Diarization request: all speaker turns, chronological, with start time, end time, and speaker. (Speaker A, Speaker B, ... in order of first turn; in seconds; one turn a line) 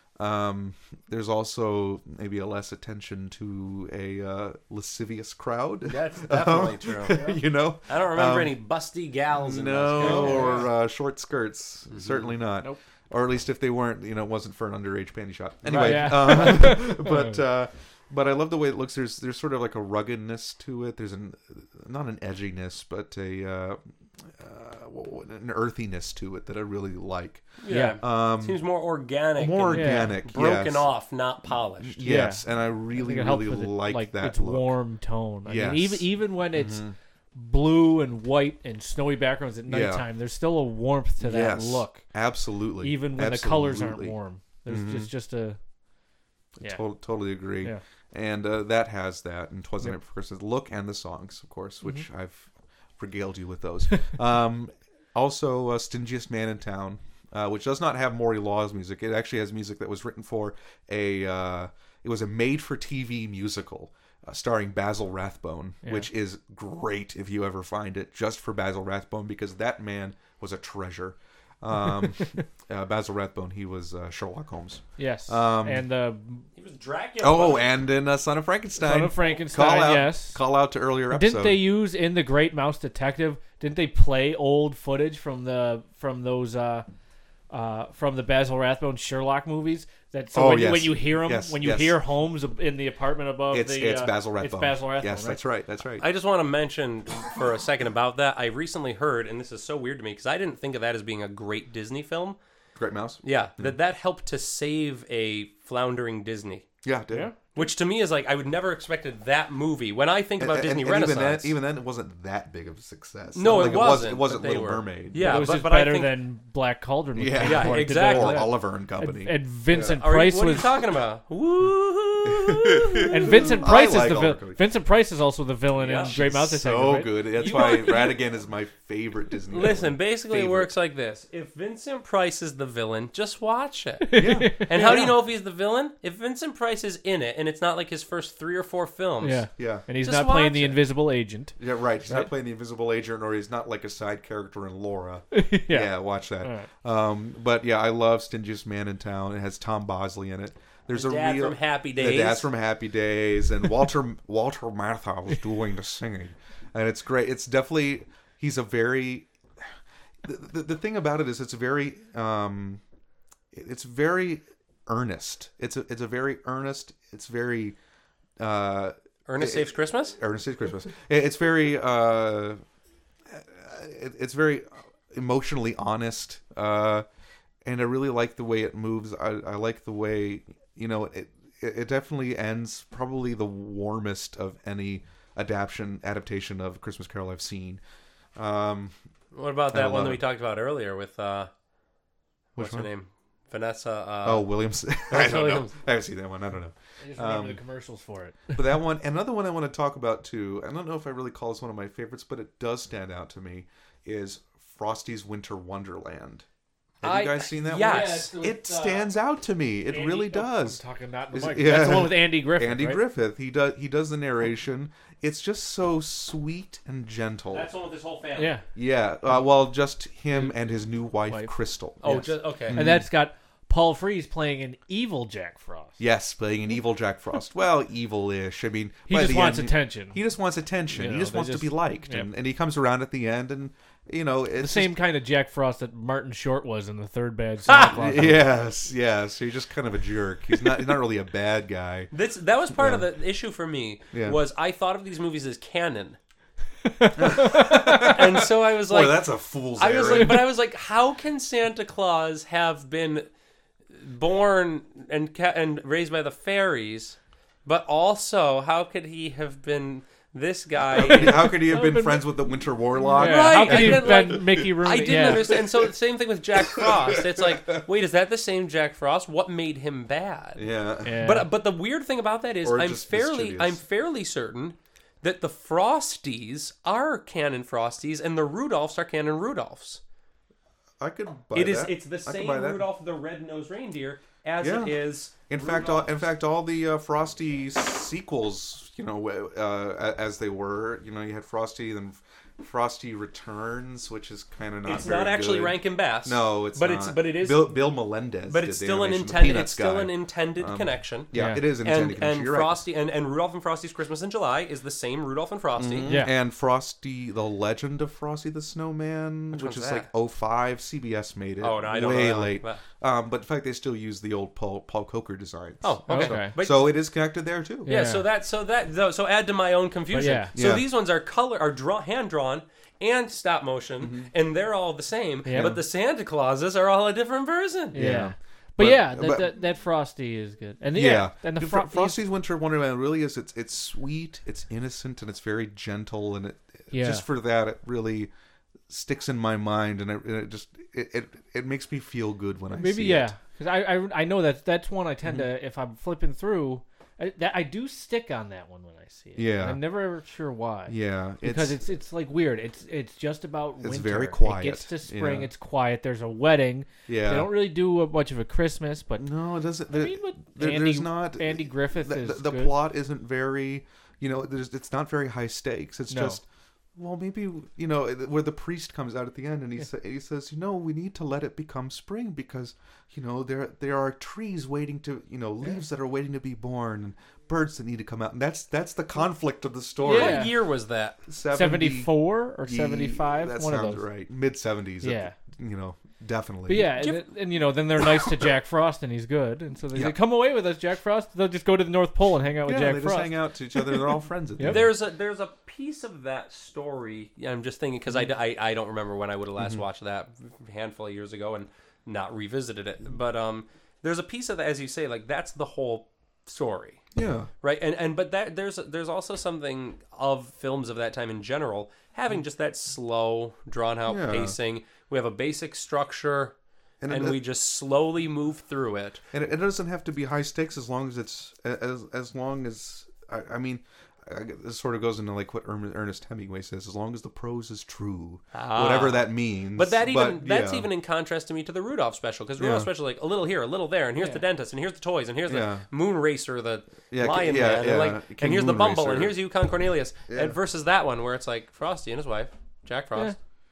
Speaker A: 0.2-8.6
Speaker B: 5.9-7.2
Speaker C: 7.1-7.4
Speaker B: 7.9-10.7
Speaker A: 9.3-28.6
Speaker C: 10.0-10.7
Speaker B: 11.9-12.3
Speaker B: 15.7-16.2
Speaker C: 15.7-17.4
Speaker B: 27.6-32.0
Speaker C: 27.7-28.0
Speaker A: 29.4-30.9
Speaker C: 29.7-30.1
Speaker A: 31.8-34.8
Speaker C: 32.0-42.0
Speaker A: 35.4-37.0
Speaker A: 39.7-40.0
Speaker A: 41.2-44.1
Speaker C: 42.8-45.6
Speaker A: 44.7-45.1
Speaker A: 46.6-75.8
Speaker C: 65.8-66.1
Speaker C: 75.0-76.5
Speaker B: 76.5-77.8
Speaker A: 77.2-81.7
Speaker C: 78.8-80.4
Speaker C: 81.1-86.8
Speaker C: 87.5-95.4
Speaker A: 90.3-92.0
Speaker A: 93.5-96.1
Speaker B: 96.0-102.4
Speaker A: 102.8-103.8
Speaker B: 103.2-106.7
Speaker A: 106.8-107.3
Speaker B: 107.5-111.5
Speaker A: 110.4-115.6
Speaker B: 113.3-116.2
Speaker C: 115.2-120.7
Speaker A: 117.1-120.0
Speaker B: 117.4-118.5
Speaker B: 119.9-123.6
Speaker A: 122.2-124.7
Speaker C: 123.1-127.5
Speaker B: 125.8-126.1
Speaker A: 125.9-130.7
Speaker B: 127.4-128.2
Speaker B: 129.5-140.8
Speaker C: 134.0-135.1
Speaker A: 134.2-135.2
Speaker C: 139.2-141.6
Speaker A: 139.6-139.8
Speaker A: 141.6-159.3
Speaker C: 145.3-146.7
Speaker B: 150.9-152.5
Speaker A: 160.2-162.8
Speaker A: 163.5-167.8
Speaker A: 168.4-172.6
Speaker B: 169.3-170.2
Speaker A: 173.3-177.1
Speaker A: 177.6-187.8
Speaker A: 188.3-188.9
Speaker B: 189.3-191.5
Speaker A: 189.7-190.2
Speaker A: 192.6-192.9
Speaker B: 192.6-194.6
Speaker A: 194.2-197.6
Speaker B: 195.1-195.8
Speaker C: 197.0-198.6
Speaker A: 198.5-206.4
Speaker A: 207.0-210.8
Speaker B: 207.0-208.3
Speaker C: 207.7-209.1
Speaker C: 209.9-213.0
Speaker A: 211.3-217.7
Speaker B: 217.5-218.6
Speaker C: 218.4-218.6
Speaker A: 218.7-223.1
Speaker C: 221.3-221.5
Speaker B: 222.0-222.8
Speaker C: 222.0-226.0
Speaker A: 226.0-234.9
Speaker C: 229.1-230.2
Speaker C: 230.9-232.3
Speaker C: 234.6-238.5
Speaker B: 237.7-237.9
Speaker A: 237.9-242.1
Speaker B: 242.1-246.2
Speaker A: 242.7-243.1
Speaker A: 244.1-244.4
Speaker C: 246.9-248.1
Speaker A: 247.2-250.5
Speaker B: 247.5-253.3
Speaker B: 253.9-261.5
Speaker A: 260.9-265.8
Speaker C: 261.1-262.3
Speaker C: 263.0-265.5
Speaker B: 263.1-270.6
Speaker A: 266.6-267.8
Speaker A: 270.6-271.3
Speaker C: 271.0-271.5
Speaker B: 271.2-280.0
Speaker A: 272.6-273.8
Speaker A: 281.0-282.9
Speaker B: 281.5-286.1
Speaker A: 284.6-302.8
Speaker B: 294.8-297.8
Speaker B: 298.5-306.2
Speaker C: 301.3-301.6
Speaker A: 305.8-318.0
Speaker C: 306.1-306.3
Speaker B: 309.5-310.1
Speaker B: 311.6-312.8
Speaker B: 315.8-317.0
Speaker C: 316.1-316.6
Speaker C: 317.9-318.2
Speaker B: 317.9-328.0
Speaker C: 320.1-320.5
Speaker A: 320.5-320.9
Speaker A: 324.0-324.3
Speaker C: 325.4-325.7
Speaker A: 325.5-325.8
Speaker C: 327.9-332.2
Speaker A: 327.9-329.5
Speaker A: 330.9-338.3
Speaker C: 336.9-337.2
Speaker A: 338.9-343.3
Speaker C: 342.7-359.3
Speaker A: 345.2-345.5
Speaker A: 349.4-349.8
Speaker A: 350.9-351.8
Speaker A: 353.8-355.5
Speaker A: 357.1-357.5
Speaker A: 359.2-366.4
Speaker C: 359.9-362.8
Speaker C: 366.1-366.4
Speaker A: 366.9-380.6
Speaker C: 380.0-380.5
Speaker B: 380.0-381.2
Speaker A: 381.3-387.1
Speaker C: 381.5-384.1
Speaker C: 385.0-385.4
Speaker C: 386.7-393.3
Speaker A: 389.9-390.2
Speaker A: 392.6-394.9
Speaker C: 394.6-394.8
Speaker B: 394.6-407.0
Speaker A: 399.6-399.8
Speaker A: 407.1-407.5
Speaker B: 407.6-416.5
Speaker A: 414.1-414.6
Speaker A: 417.0-417.4
Speaker B: 417.1-419.2
Speaker A: 419.3-430.9
Speaker B: 428.5-443.4
Speaker A: 432.6-432.9
Speaker C: 434.2-434.4
Speaker A: 435.4-435.9
Speaker A: 437.1-439.4
Speaker A: 440.3-440.6